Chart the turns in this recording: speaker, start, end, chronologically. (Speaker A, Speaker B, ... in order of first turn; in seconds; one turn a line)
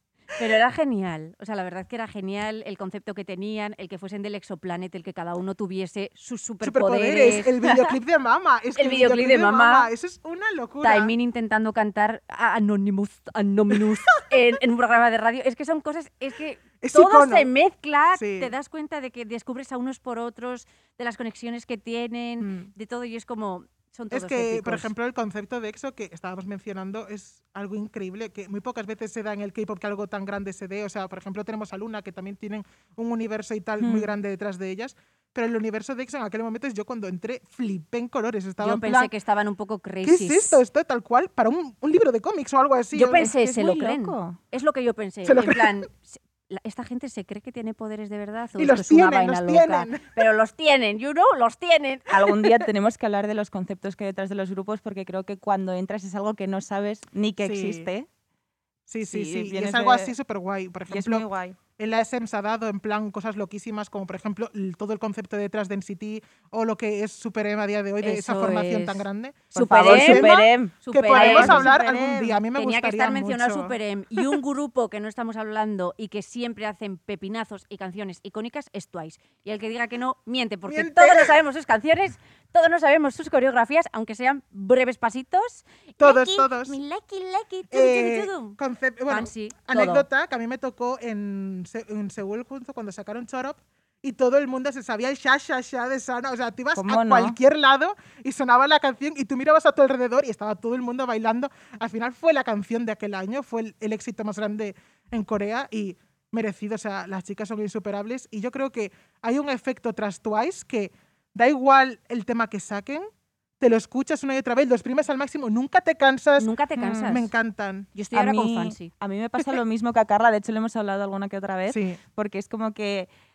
Speaker A: 0.3-7.5
Speaker B: 6.6-11.2
Speaker A: 8.8-9.9
Speaker A: 10.8-24.9
Speaker B: 16.8-17.5
Speaker B: 18.1-18.5
Speaker B: 22.4-22.7
Speaker B: 24.1-39.1
Speaker C: 33.8-34.1
Speaker A: 38.6-40.6
Speaker B: 40.0-43.3
Speaker A: 42.9-52.3
Speaker C: 43.1-44.4
Speaker B: 45.2-45.8
Speaker B: 48.6-50.0
Speaker C: 52.1-58.1
Speaker B: 57.4-57.9
Speaker B: 58.9-61.3
Speaker C: 59.0-60.1
Speaker C: 60.9-61.6
Speaker B: 61.8-73.8
Speaker A: 68.0-71.7
Speaker C: 69.6-72.4
Speaker A: 72.5-90.1
Speaker B: 80.7-81.4
Speaker B: 86.0-86.8
Speaker B: 87.7-113.1
Speaker C: 96.8-97.4
Speaker B: 113.6-116.5
Speaker A: 116.4-117.3
Speaker C: 116.8-117.2
Speaker B: 117.1-117.9
Speaker A: 118.0-118.9
Speaker C: 118.1-123.1
Speaker B: 121.7-122.0